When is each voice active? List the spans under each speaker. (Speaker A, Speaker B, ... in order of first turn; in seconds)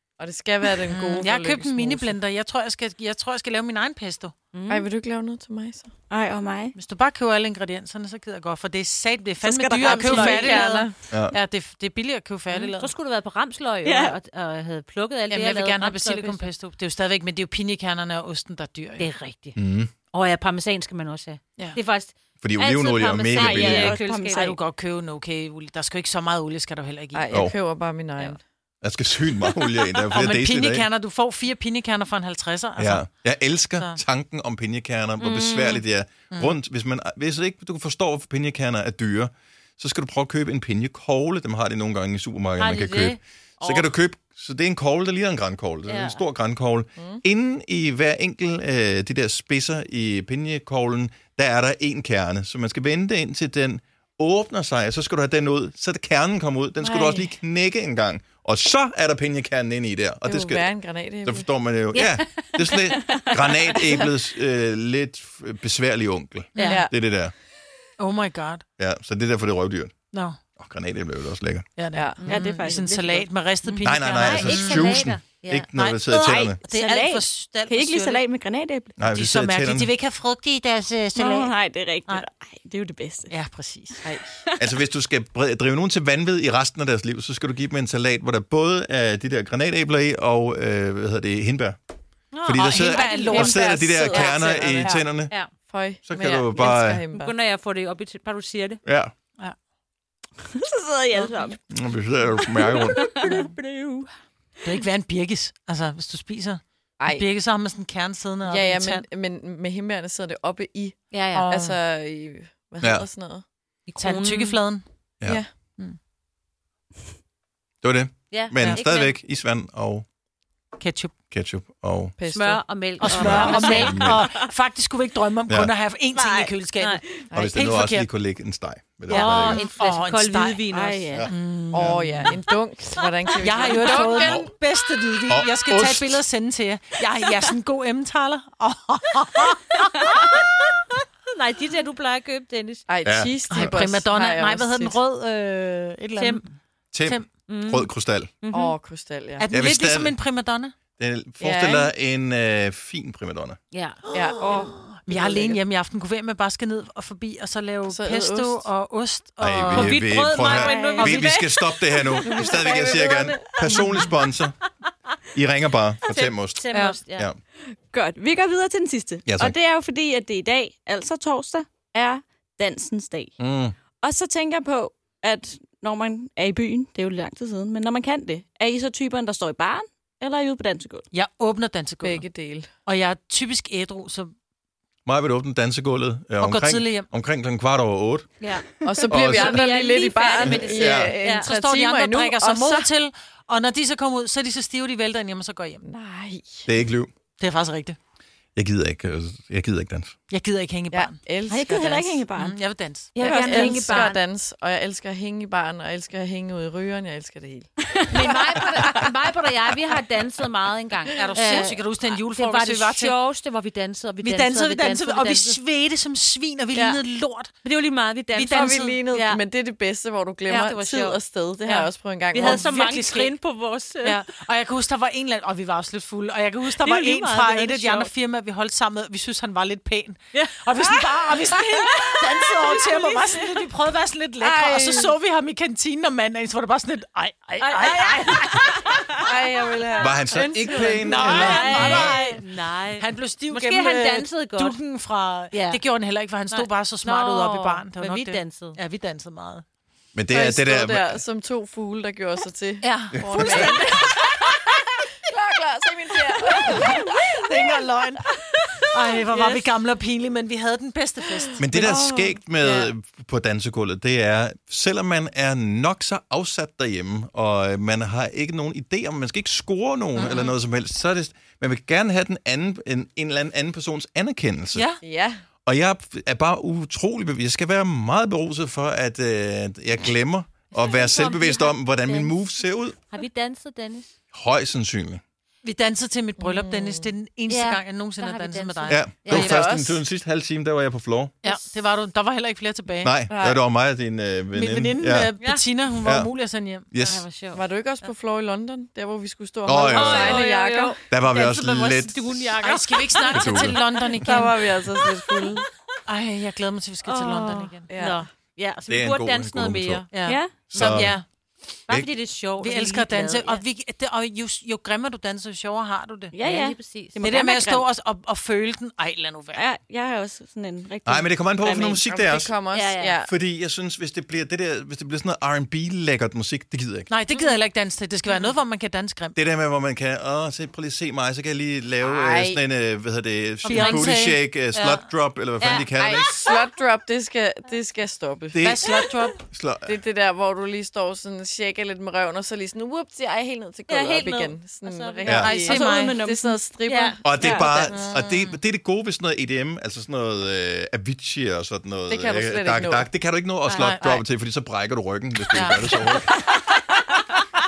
Speaker A: 0.2-2.1, 4.7-5.9, 9.7-10.9, 27.1-28.4, 56.8-57.3, 60.2-61.5, 66.6-66.9, 71.9-73.2, 84.0-84.4, 93.3-95.0, 95.7-97.3, 107.0-107.3, 108.4-113.4, 115.2-115.5, 122.2-122.6, 127.3-127.8, 131.7-134.4, 142.9-145.0, 148.5-149.5, 151.4-151.9, 154.1-155.6, 157.9-158.6, 162.2-164.0, 182.0-182.7, 188.8-192.9, 195.8-196.7, 200.9-202.3, 203.2-209.0, 218.4-222.7, 234.4-235.2, 239.2-241.7, 250.3-254.2, 255.2-257.5, 275.0-275.4, 286.4-287.1, 289.3-290.0, 293.3-293.6, 297.5-301.0, 304.1-305.7, 307.9-308.2, 322.0-323.3, 332.0-332.6, 336.0-338.8, 339.8-348.2, 352.1-353.1
Speaker B: 0.9-4.3, 6.8-12.9, 15.3-19.1, 24.4-27.3, 30.1-33.1, 66.5-66.8, 68.0-68.6, 70.1-70.4, 71.8-75.0, 75.7-78.2, 79.1-81.5, 83.3-84.0, 92.6-94.0, 104.6-109.0, 111.3-111.8, 114.0-114.8, 120.8-121.1, 123.0-128.1, 129.1-130.7, 131.3-132.4, 133.4-139.9, 143.5-146.5, 149.4-150.8, 154.1-160.0, 161.1-161.3, 181.1-182.2, 182.9-184.3, 186.4-187.1, 191.3-195.8, 197.4-198.0, 200.3-201.2, 202.4-204.2, 211.1-213.2, 214.2-217.5, 218.3-219.2, 220.5-220.8, 222.3-223.4, 224.0-238.9, 241.1-242.4, 243.0-249.6, 252.8-254.1, 257.4-258.2, 258.9-261.8, 262.6-262.9, 274.8-275.0, 285.6-289.0, 291.4-293.1, 294.5-296.9, 302.6-304.6, 306.1-307.9, 310.1-311.2, 312.6-316.4, 317.2-319.6, 327.1-329.4, 333.6-334.4, 338.6-339.5, 345.2-346.2, 347.9-348.6, 353.8-354.2, 355.6-355.9
Speaker C: 4.5-4.9, 12.5-16.5, 19.0-19.6, 20.1-24.6, 35.2-35.8, 42.6-43.8, 45.9-46.2, 61.9-62.9, 73.7-75.7, 92.3-95.5, 96.6-98.8, 103.2-103.5, 111.1-111.5, 113.9-114.6, 118.3-119.1, 122.3-124.0, 129.1-131.1, 140.1-140.4, 141.3-142.9, 146.2-146.4, 147.5-147.9, 148.4-148.8, 153.7-154.0, 159.7-162.2, 166.1-167.3, 188.4-191.5, 203.1-204.2, 208.1-215.6, 216.7-217.0, 217.6-219.4, 220.5-224.2, 226.8-228.1, 230.3-231.8, 237.6-239.0, 239.9-244.8, 245.5-245.8, 246.5-248.8, 280.7-282.4, 283.0-284.1, 287.5-289.7, 295.4-295.6, 297.0-298.1, 299.7-303.8, 307.5-310.1, 310.7-311.2, 311.9-313.6, 316.4-317.3, 322.7-323.2, 334.7-335.0, 335.6-336.6, 343.9-345.8, 346.9-347.2, 353.7-354.0
Speaker D: 6.1-6.7, 9.4-10.8, 13.8-14.2, 23.3-24.6, 72.2-72.8, 76.1-79.0, 81.2-83.3, 100.6-101.6, 102.4-104.0, 123.1-124.4, 126.1-126.6, 130.7-131.3, 160.5-161.0, 167.8-173.3, 174.0-181.1, 201.5-202.6, 203.2-203.9, 208.2-208.8, 261.8-262.4, 307.1-307.8, 310.2-310.6, 316.3-317.9, 319.6-322.0, 345.6-346.5, 347.4-347.7
Speaker E: 11.1-11.4, 19.6-19.9, 22.4-24.0, 28.8-30.9, 32.8-60.7, 61.2-67.3, 68.8-70.0, 70.6-71.7, 73.8-76.6, 79.0-79.9, 84.6-91.8, 92.5-95.3, 96.1-97.0, 98.8-99.1, 101.7-103.1, 112.8-113.1, 117.8-120.0, 121.3-122.2, 123.1-124.2, 127.3-129.7, 131.1-132.0, 134.1-134.5, 135.3-136.2, 143.1-143.8, 146.9-148.3, 149.5-150.2, 151.0-153.6, 159.4-164.6, 165.3-167.4, 169.3-169.6, 173.4-173.8, 185.1-188.3, 189.1-189.6, 190.4-191.2, 196.7-197.1, 198.6-200.1, 240.0-242.2, 250.1-251.2, 253.2-253.8, 261.6-274.9, 275.6-283.0, 284.3-285.2, 288.9-291.4, 293.0-295.3, 295.9-296.3, 296.9-297.2, 299.6-300.5, 301.1-302.5, 303.3-303.8, 308.9-310.1, 310.7-311.2, 321.1-322.6, 323.2-327.1, 329.4-336.3, 338.5-338.9, 339.5-340.0, 345.2-345.5, 347.2-356.4